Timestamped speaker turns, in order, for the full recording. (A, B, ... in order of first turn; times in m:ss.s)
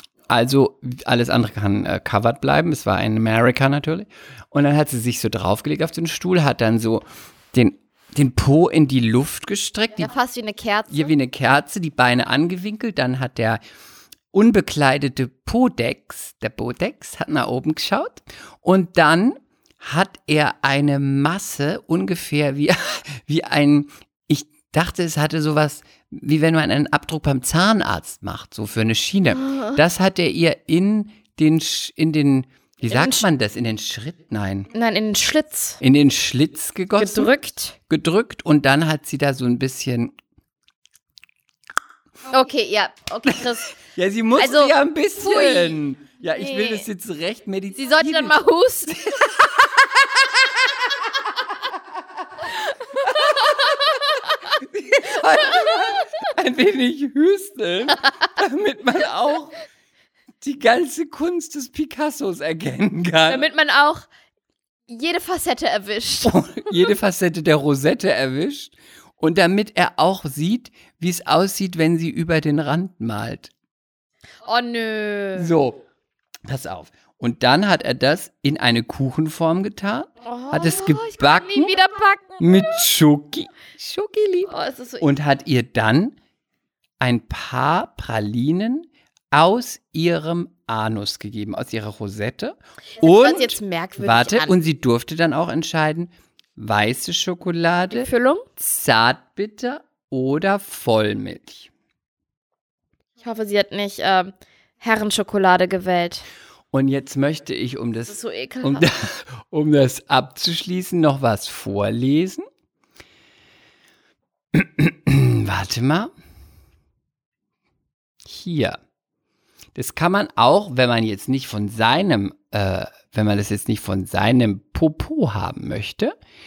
0:00.3-0:10.1 A
0:10.0-0:11.1 B
0:10.9-0:13.6 A
0:14.3-0:34.7 A
0:29.4-0:29.8 B
0:32.9-0:33.3 B
0:34.7-0:35.8 B
0:35.8-0:37.3 A
0:37.0-0:37.8 B
0:37.9-0:40.1 A
0:42.3-0:43.7 B
0:43.3-0:50.6 A
0:44.4-0:45.8 B
0:46.4-0:46.8 B
0:47.8-0:49.0 B
0:53.0-0:53.5 B
0:53.0-0:53.8 A
0:54.4-0:59.5 A
1:00.4-1:03.5 A
1:03.3-1:04.1 B
1:04.9-1:06.4 B
1:06.2-1:13.5 A
1:14.4-1:15.5 B
1:15.4-1:15.8 A
1:16.4-1:21.8 A
1:20.2-1:22.8 B
1:22.4-1:26.2 A
1:24.5-1:25.1 B
1:27.0-1:41.7 A
1:33.0-1:34.6 B
1:37.9-1:38.4 B
1:43.2-1:46.3 B
1:46.7-1:52.4 A
1:48.1-1:48.9 B
1:54.5-1:56.1 A
1:58.2-1:58.8 A
1:59.8-2:06.1 A